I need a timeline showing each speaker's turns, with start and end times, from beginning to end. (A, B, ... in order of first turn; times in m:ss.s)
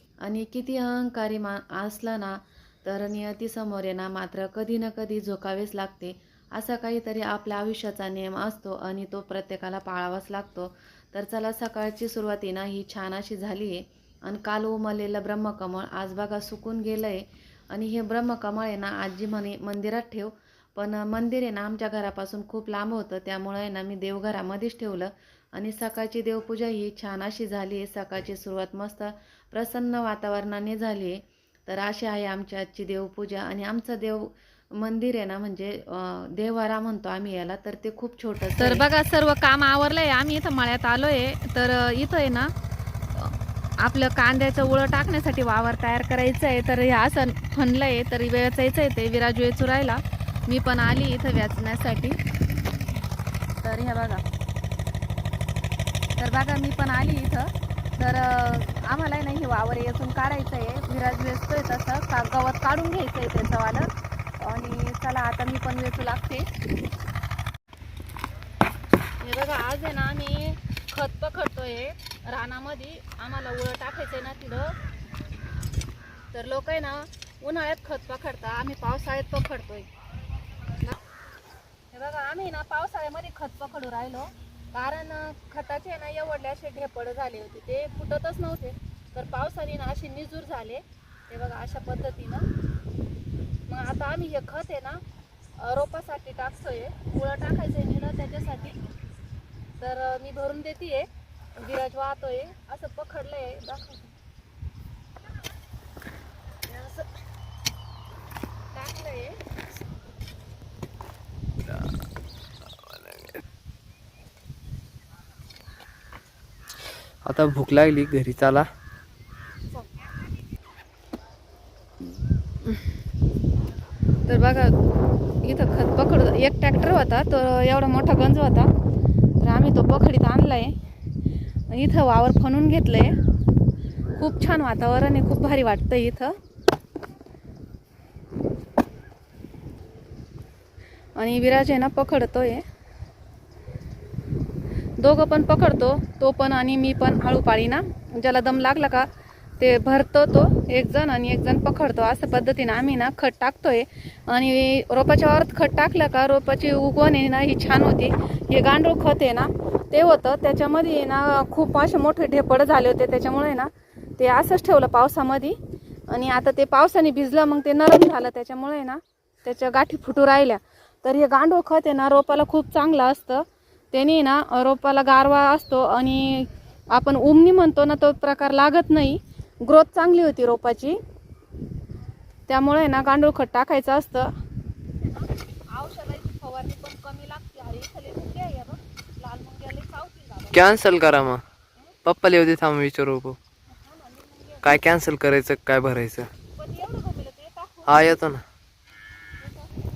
0:00.2-0:38.8 A
0:38.6-0:42.5 B
0:43.1-0:52.2 B
0:53.6-0:54.2 B
0:56.2-1:06.5 B
1:09.2-1:14.8 B
1:16.3-1:19.9 B
1:21.9-1:32.5 B
1:33.7-1:35.0 B
1:35.6-1:38.8 B
1:39.8-1:44.1 B
1:46.7-1:47.1 B
1:48.7-1:49.4 B
1:57.2-1:58.7 C
2:04.3-2:04.7 B
2:05.4-2:08.7 B
2:09.4-2:10.7 B
2:11.7-2:13.1 B
2:14.2-2:16.3 B
2:21.2-2:22.6 B
2:25.0-2:29.1 B
2:29.6-3:01.0 B
3:02.5-3:04.3 B
3:05.7-3:10.8 B
3:10.5-3:11.4 C
3:12.0-3:13.4 C
3:13.7-3:14.8 B
3:14.6-3:16.3 C
3:16.6-3:18.2 B
3:17.8-3:18.4 C
3:19.4-3:19.7 B